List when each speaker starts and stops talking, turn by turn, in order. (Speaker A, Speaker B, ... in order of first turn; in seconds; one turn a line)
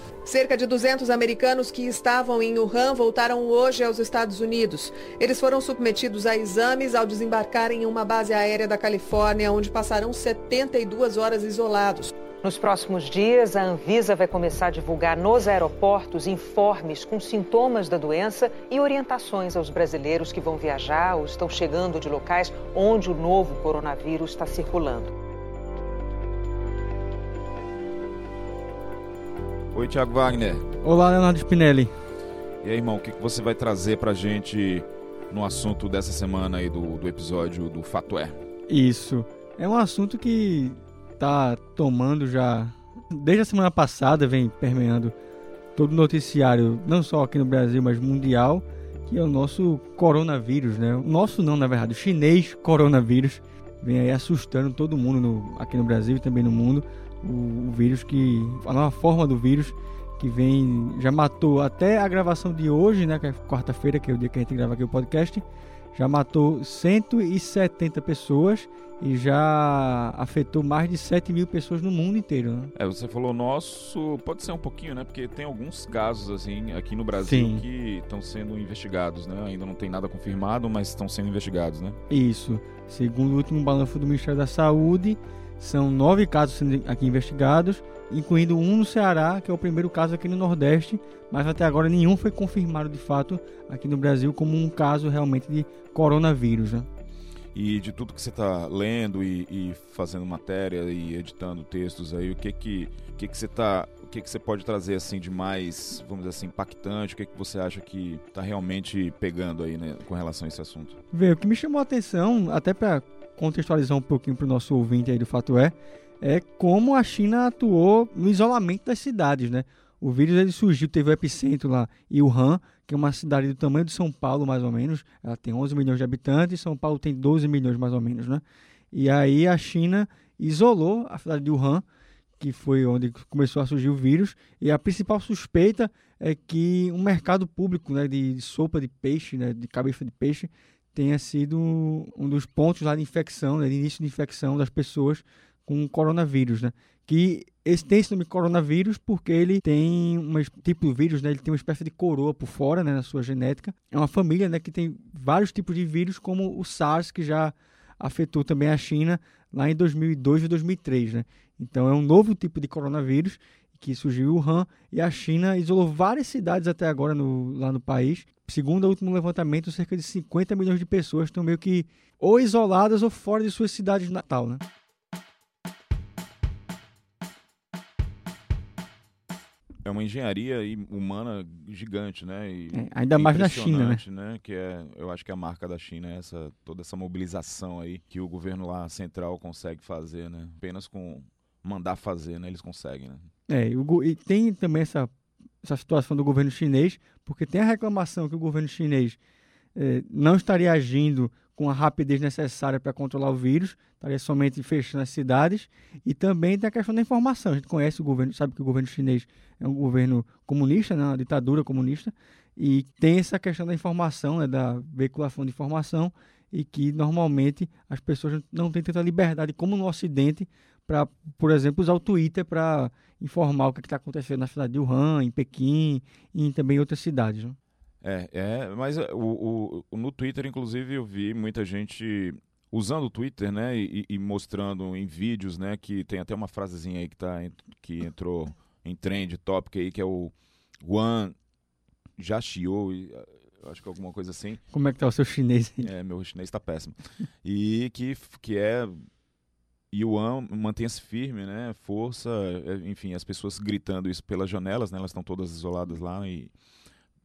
Speaker A: 0.2-12.1
Speaker B: 12.4-25.1
Speaker C: 29.7-30.7
Speaker D: 30.8-31.9
Speaker C: 32.6-38.4
Speaker D: 38.7-45.1
Speaker D: 45.8-72.7
Speaker C: 72.8-82.0
Speaker D: 77.2-77.6
Speaker D: 82.1-96.9
Speaker C: 97.5-111.0
Speaker D: 111.1-131.8
Speaker D: 132.4-174.6
Speaker C: 179.8-193.3
Speaker D: 182.7-184.0
Speaker D: 193.5-195.1
Speaker D: 195.6-199.2
Speaker D: 199.7-227.6
Speaker C: 228.0-241.3
Speaker C: 242.2-244.6
Speaker D: 244.7-245.9
Speaker C: 245.8-249.0
Speaker C: 249.9-256.5